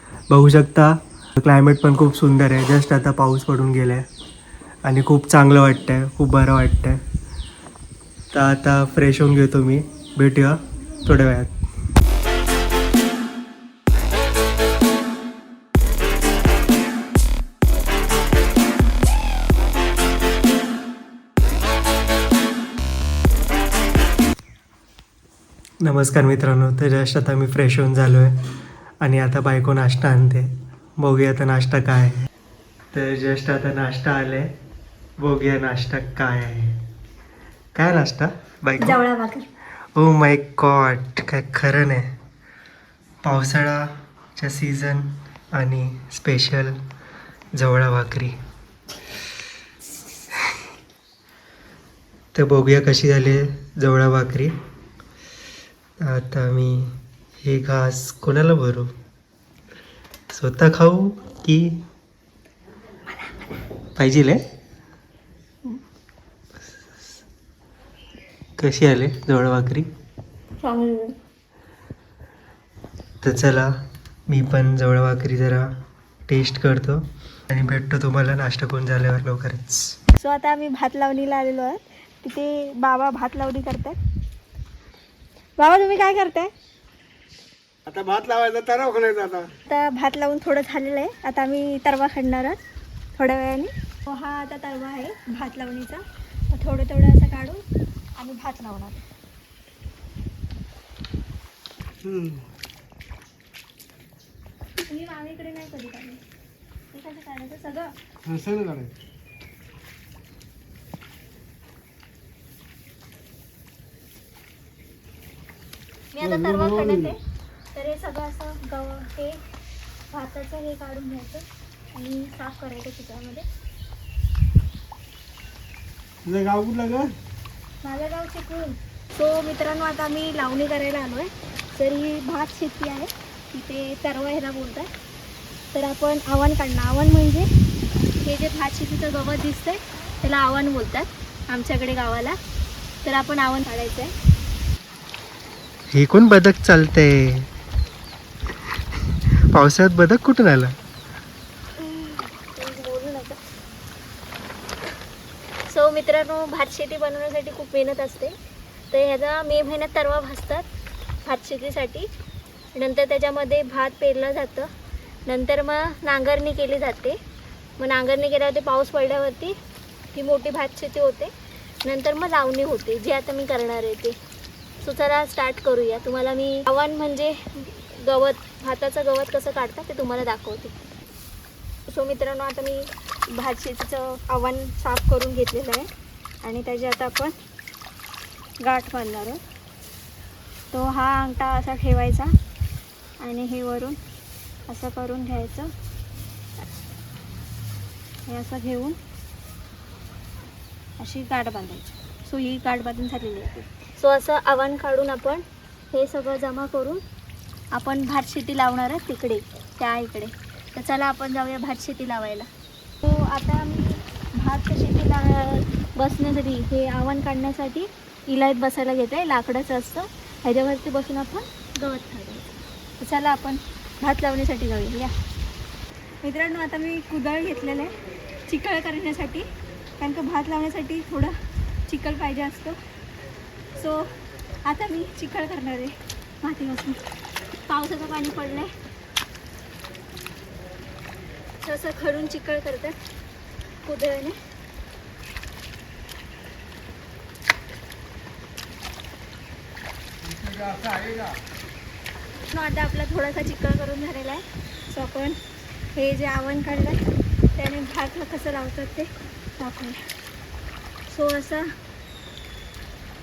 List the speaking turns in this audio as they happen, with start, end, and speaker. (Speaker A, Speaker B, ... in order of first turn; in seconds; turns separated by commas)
Speaker A: 0.3-4.1, Speaker A: 4.8-7.0, Speaker A: 8.3-11.5, Speaker A: 25.8-28.4, Speaker A: 29.0-32.2, Speaker A: 32.9-34.5, Speaker A: 35.2-36.8, Speaker A: 37.8-39.0, Speaker B: 38.8-39.5, Speaker A: 40.0-42.1, Speaker A: 43.2-46.8, Speaker A: 47.5-48.4, Speaker A: 52.3-54.5, Speaker A: 56.0-58.9, Speaker A: 60.3-61.8, Speaker A: 64.0-64.4, Speaker A: 68.6-69.9, Speaker B: 70.6-71.2, Speaker A: 73.2-73.7, Speaker A: 74.3-75.8, Speaker A: 76.3-80.0, Speaker B: 80.2-84.0, Speaker B: 85.6-86.5, Speaker A: 87.9-89.5, Speaker C: 88.1-89.1, Speaker B: 89.7-92.6, Speaker B: 93.2-97.6, Speaker B: 98.2-99.0, Speaker C: 102.0-102.4, Speaker B: 104.8-106.2, Speaker B: 106.9-108.0, Speaker C: 108.3-108.9, Speaker B: 116.1-117.2, Speaker C: 116.4-116.7, Speaker B: 117.7-119.4, Speaker B: 120.1-123.5, Speaker C: 126.3-127.1, Speaker B: 127.8-134.9, Speaker B: 135.7-137.5, Speaker B: 138.2-142.4, Speaker B: 143.0-144.1, Speaker A: 145.9-147.5, Speaker A: 149.1-150.8, Speaker B: 151.8-153.4, Speaker B: 155.7-158.4, Speaker B: 158.9-160.7, Speaker B: 161.2-162.1, Speaker B: 162.7-164.7, Speaker B: 165.3-167.2, Speaker B: 167.8-169.6, Speaker B: 170.1-171.3, Speaker B: 171.8-174.2, Speaker B: 174.8-180.7, Speaker B: 181.9-185.9, Speaker B: 186.4-187.3, Speaker B: 188.6-189.4, Speaker B: 190.7-192.3, Speaker B: 193.2-194.0, Speaker B: 194.7-195.7, Speaker B: 198.3-199.0, Speaker B: 201.0-207.0, Speaker B: 207.7-212.5, Speaker B: 213.0-222.5, Speaker B: 223.0-225.1, Speaker B: 226.2-227.9, Speaker B: 228.5-229.5, Speaker B: 230.0-231.3, Speaker B: 231.9-232.8, Speaker B: 233.8-234.1, Speaker B: 234.6-237.0, Speaker B: 237.7-238.7, Speaker B: 241.6-243.0, Speaker B: 243.8-244.4, Speaker B: 252.4-255.4, Speaker B: 255.9-257.0, Speaker B: 257.6-260.0, Speaker B: 261.1-261.7